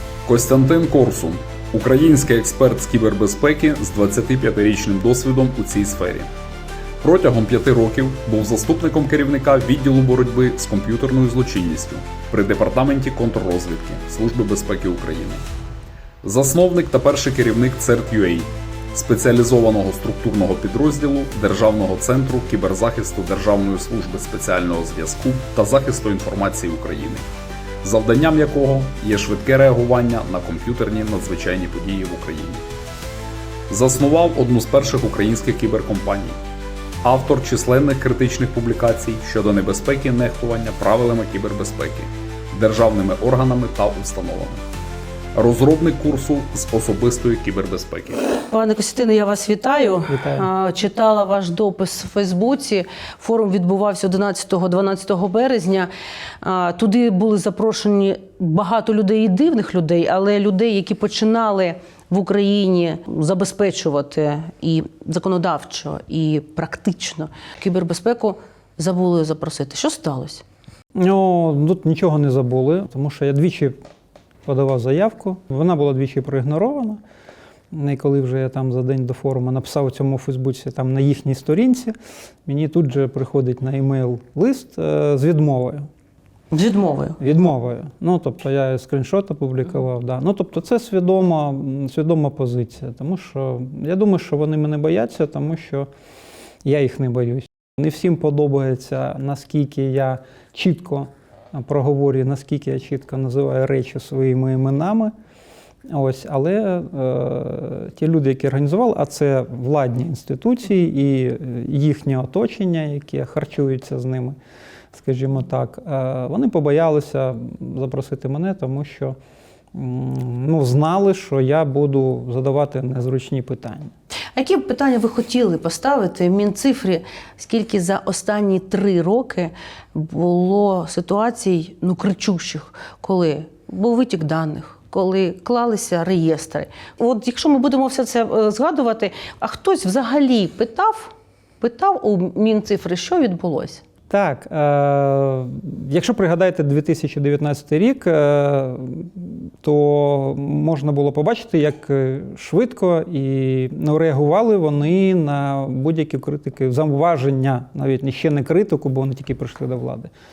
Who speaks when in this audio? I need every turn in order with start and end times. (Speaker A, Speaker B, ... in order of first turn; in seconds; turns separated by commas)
Speaker A: 0.2-6.3, Speaker A: 7.0-15.4, Speaker A: 16.2-27.2, Speaker A: 27.8-32.6, Speaker A: 33.7-36.4, Speaker A: 37.0-44.6, Speaker A: 45.3-48.2, Speaker B: 48.5-55.9, Speaker C: 50.1-50.5, Speaker B: 56.4-70.4, Speaker C: 70.9-73.8, Speaker C: 74.5-77.0, Speaker C: 77.7-81.9, Speaker C: 82.5-85.9, Speaker B: 86.5-87.2, Speaker C: 87.2-95.9, Speaker C: 96.6-105.1, Speaker C: 105.9-114.3, Speaker C: 114.9-119.2, Speaker C: 119.7-123.9, Speaker B: 124.3-143.8, Speaker C: 144.1-160.1